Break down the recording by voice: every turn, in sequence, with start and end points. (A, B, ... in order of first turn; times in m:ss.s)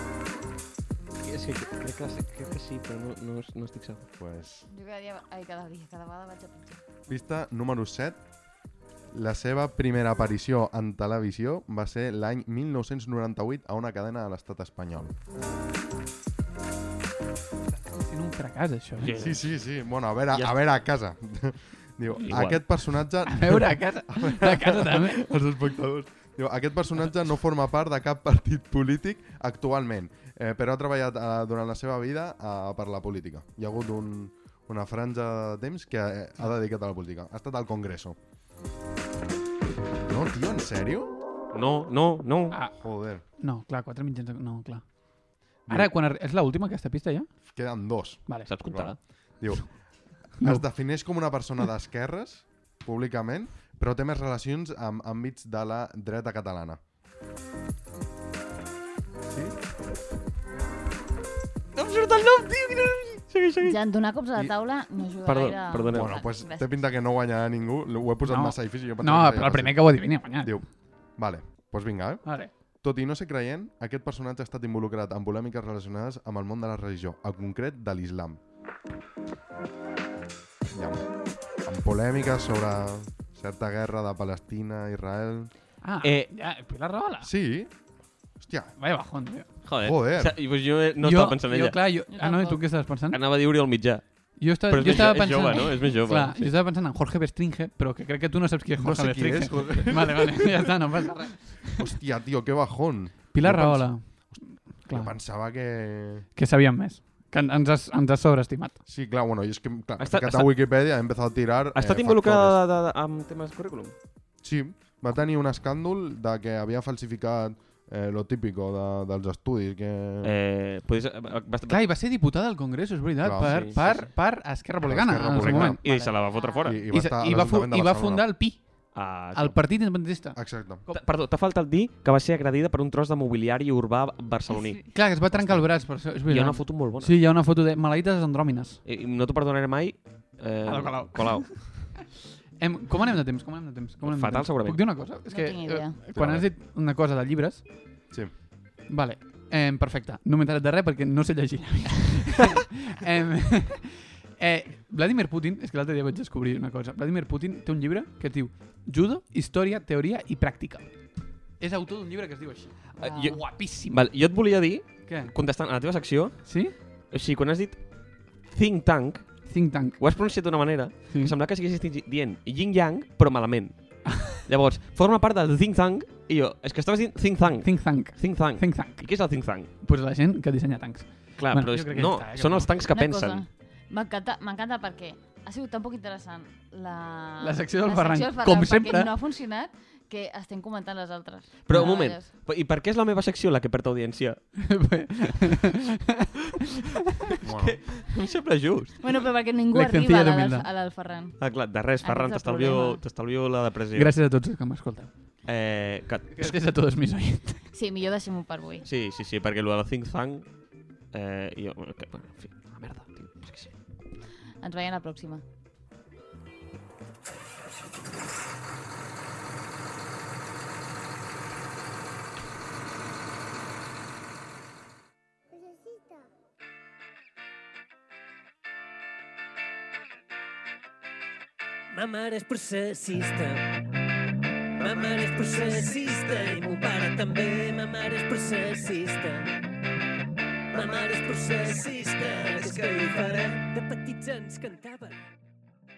0:01.2-0:04.0 A
0:04.2-0:04.7 B
0:04.7-0:06.8 C
0:07.1-0:08.2 B
0:09.1-0:15.1 B
0:17.8-0:19.2 D
0:19.0-0:19.4 A
0:19.2-0:38.2 B
0:22.2-0:22.7 A
0:23.2-0:25.2 D
0:40.1-0:41.1 B
0:41.5-0:42.6 A
0:42.8-0:43.2 B
0:43.4-0:44.8 D
0:45.7-0:47.3 D
0:47.5-0:49.7 B
0:48.5-0:49.0 A
0:50.3-0:56.8 B
0:59.3-0:59.5 B
1:01.7-1:03.8 A
1:03.6-1:06.8 C
1:05.2-1:06.2 A
1:05.9-1:10.6 B
1:08.3-1:10.6 D
1:11.2-1:12.2 B
1:12.2-1:12.5 D
1:12.8-1:18.4 B
1:20.7-1:21.1 B
1:21.6-1:25.5 B
1:25.8-1:27.3 D
1:26.0-1:26.3 A
1:27.2-1:27.7 B
1:28.4-1:28.8 B
1:28.8-1:29.5 D
1:29.6-1:31.8 A
1:29.8-1:30.4 B
1:31.0-1:33.2 D
1:32.1-1:32.6 C
1:33.1-1:34.0 A
1:34.4-1:41.9 D
1:34.6-1:36.5 A
1:38.8-1:40.7 B
1:41.7-1:46.3 B
1:43.3-1:44.0 D
1:44.9-1:45.1 D
1:46.4-1:48.8 D
1:48.8-1:52.6 B
1:50.0-1:50.5 A
1:51.7-1:53.9 A
1:54.4-2:00.3 B
2:00.2-2:01.8 A
2:01.7-2:06.1 D
2:03.2-2:03.9 B
2:03.3-2:04.1 A
2:04.8-2:05.8 B
2:05.3-2:06.8 A
2:06.1-2:06.8 C
2:06.6-2:08.3 B
2:06.9-2:11.0 D
2:08.9-2:09.6 A
2:10.3-2:10.8 B
2:10.9-2:14.8 A
2:14.6-2:14.9 C
2:14.9-2:18.8 D
2:15.3-2:15.6 B
2:16.3-2:17.2 A
2:18.8-2:21.9 A
2:20.6-2:21.8 D
2:22.6-2:27.6 D
2:24.0-2:24.9 A
2:25.2-2:26.0 C
2:26.1-2:26.5 B
2:28.9-2:40.9 D
2:41.6-2:44.0 D
2:43.0-2:46.4 A
2:45.0-2:45.3 D
2:46.4-2:46.7 D
2:47.1-2:47.8 A
2:48.5-2:49.4 A
2:49.5-2:50.0 D
2:50.0-2:59.7 A
2:57.6-2:59.1 D
2:59.8-3:02.7 D
3:01.4-3:03.4 A
3:02.9-3:12.3 C
3:07.4-3:09.1 D
3:11.6-3:14.4 A
3:14.6-3:17.4 D
3:17.4-3:19.0 A
3:17.4-3:17.8 B
3:19.0-3:21.4 C
3:19.7-3:20.7 D
3:21.4-3:24.1 A
3:22.0-3:23.0 C
3:23.9-3:25.1 D
3:25.4-3:26.5 A
3:26.3-3:27.6 D
3:27.7-3:28.9 C
3:28.8-3:30.4 A
3:31.1-3:33.7 A
3:34.6-3:35.4 C
3:51.9-3:53.7 E
3:54.8-3:59.6 E
4:00.7-4:05.2 E